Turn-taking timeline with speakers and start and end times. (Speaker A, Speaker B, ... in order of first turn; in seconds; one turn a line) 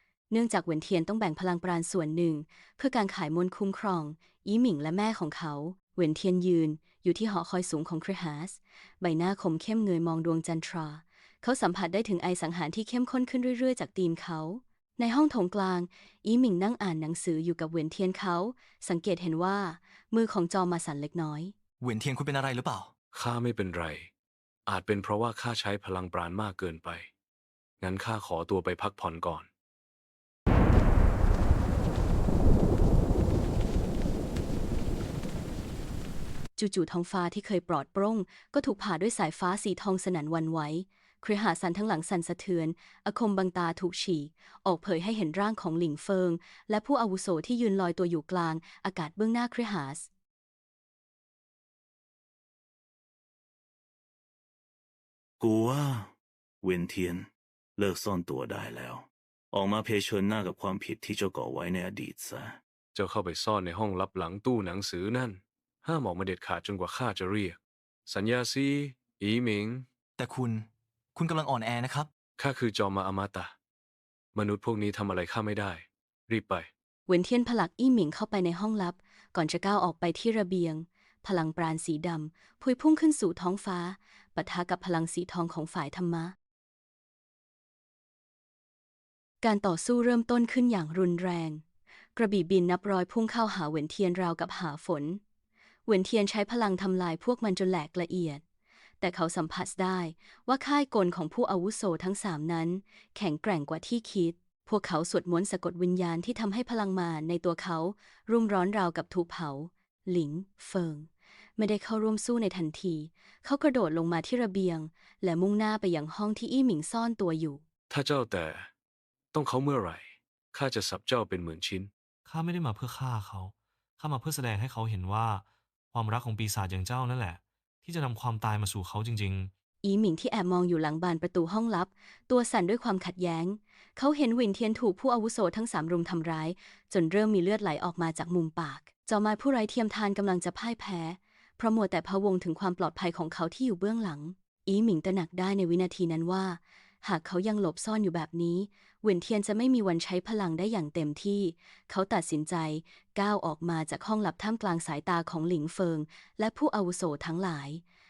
Speaker A: 0.3-21.5
Speaker B: 21.8-22.9
Speaker C: 23.1-24.1
Speaker C: 24.7-27.1
Speaker C: 27.8-29.5
Speaker A: 36.6-50.1
Speaker D: 55.4-62.6
Speaker C: 62.9-69.9
Speaker B: 70.2-72.1
Speaker C: 72.4-73.5
Speaker C: 74.3-76.7
Speaker A: 77.1-86.3
Speaker A: 89.4-91.6
Speaker A: 92.2-95.2
Speaker A: 95.9-98.4
Speaker A: 99.0-117.6
Speaker C: 117.9-118.7
Speaker C: 119.3-121.9
Speaker E: 122.2-129.5
Speaker A: 129.8-157.8